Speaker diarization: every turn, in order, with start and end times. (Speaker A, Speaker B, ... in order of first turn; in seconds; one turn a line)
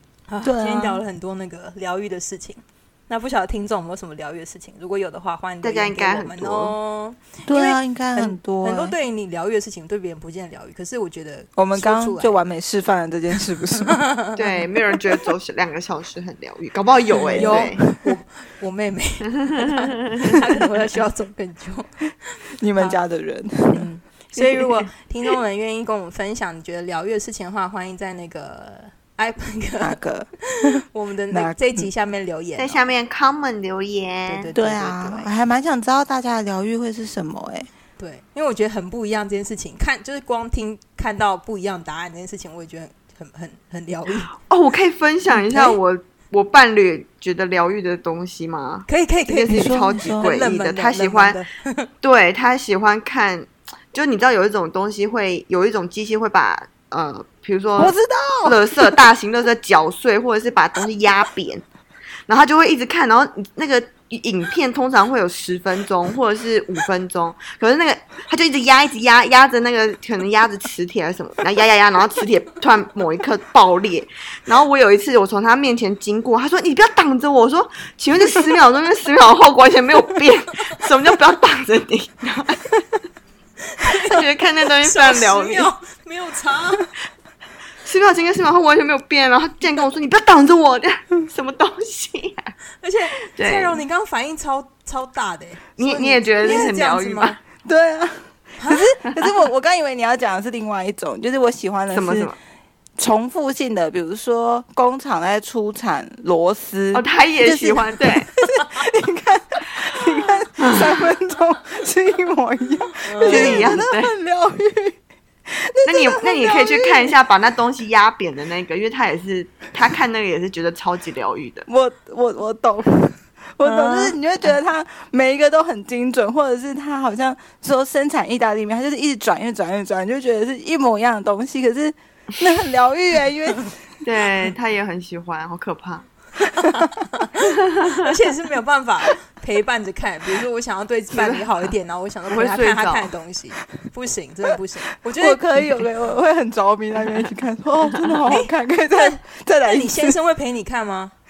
Speaker A: 0.3-12.4
Speaker B: 0.4-1.0
Speaker C: 5.6-6.8
Speaker B: 7.5-8.9
Speaker B: 11.6-14.0
Speaker A: 13.8-14.4
Speaker C: 14.3-17.8
Speaker B: 17.1-17.8
Speaker A: 17.2-23.0
Speaker C: 19.4-20.4
Speaker B: 22.6-23.9
Speaker A: 23.7-33.0
Speaker B: 29.8-31.9
Speaker C: 32.6-34.5
Speaker A: 34.3-35.3
Speaker B: 34.5-37.7
Speaker A: 38.0-44.3
Speaker C: 44.5-51.4
Speaker A: 45.5-45.8
Speaker A: 48.9-51.9
Speaker B: 49.5-50.4
Speaker C: 52.0-61.6
Speaker B: 57.8-58.6
Speaker C: 62.3-82.7
Speaker A: 83.8-86.9
Speaker C: 83.8-85.7
Speaker C: 87.8-92.5
Speaker A: 92.8-97.4
Speaker C: 93.2-93.8
Speaker C: 95.8-97.4
Speaker B: 97.6-102.3
Speaker A: 98.6-98.9
Speaker C: 101.9-102.3
Speaker B: 103.0-115.0
Speaker C: 106.9-108.3
Speaker C: 110.6-110.8
Speaker A: 113.0-113.8
Speaker C: 113.2-114.1
Speaker B: 115.5-117.2
Speaker C: 115.8-121.7
Speaker B: 121.7-133.7
Speaker A: 123.6-124.2
Speaker C: 134.0-136.1
Speaker B: 136.6-136.9
Speaker A: 136.6-145.9
Speaker C: 137.4-138.1
Speaker C: 141.1-141.7
Speaker C: 142.3-143.1
Speaker B: 145.2-150.2
Speaker A: 147.0-147.3
Speaker A: 147.8-151.1